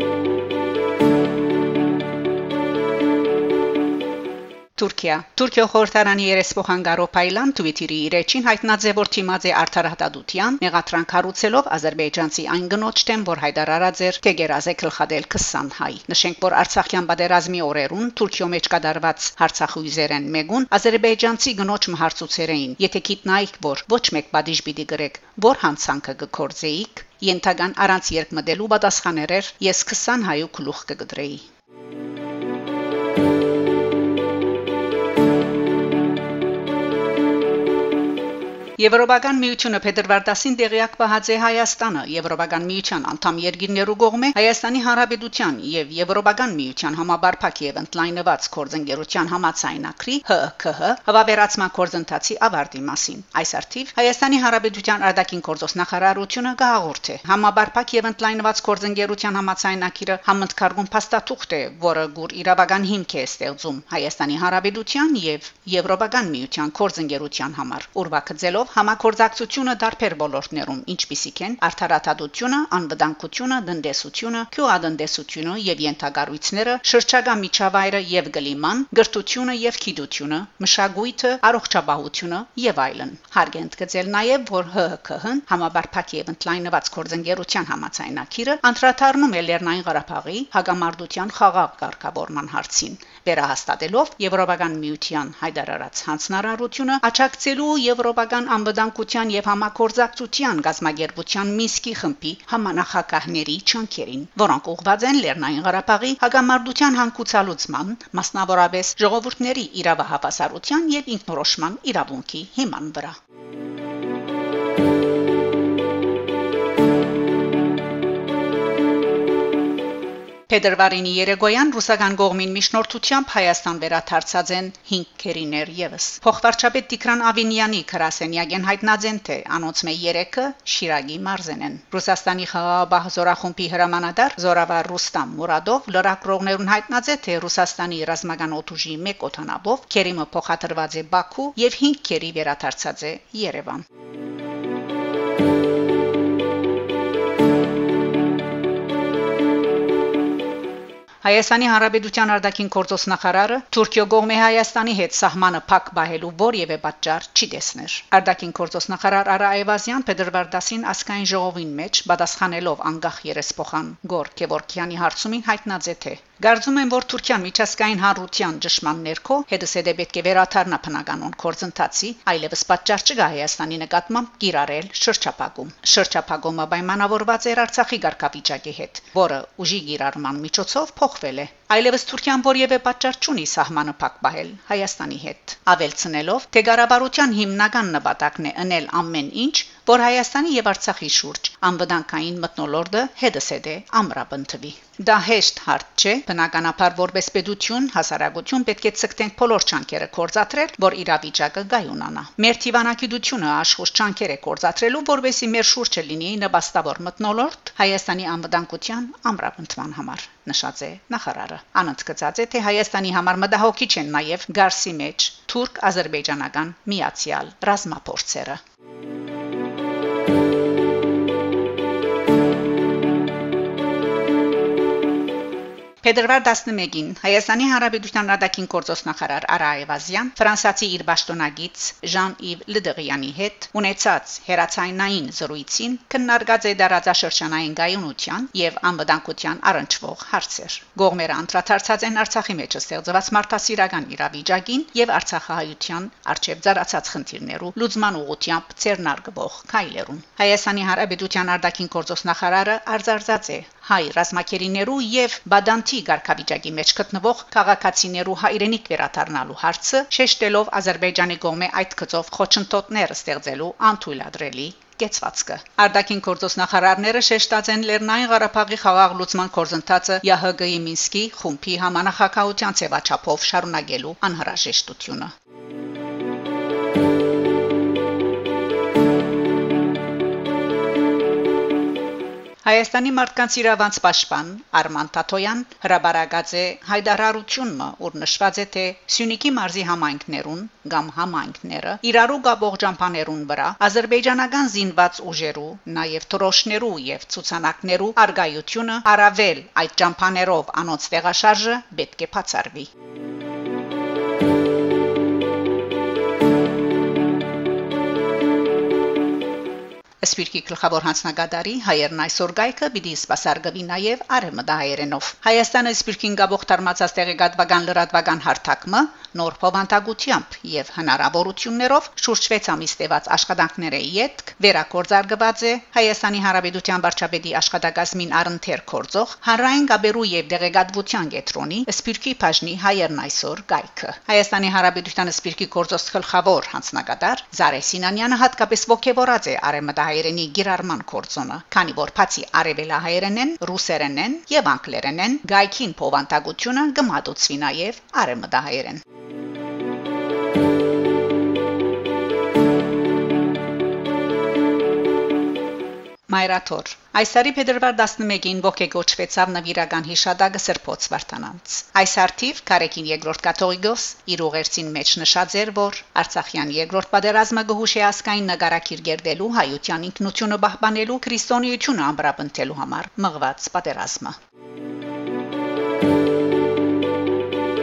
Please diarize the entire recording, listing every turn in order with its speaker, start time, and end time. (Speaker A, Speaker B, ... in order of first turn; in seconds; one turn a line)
Speaker A: 4.8-31.5
Speaker A: 38.8-113.2
Speaker A: 120.5-143.8
Speaker A: 151.2-218.6
Speaker A: 226.0-275.3
Speaker A: 282.6-302.9
Speaker A: 310.2-349.0
Speaker A: 356.3-374.4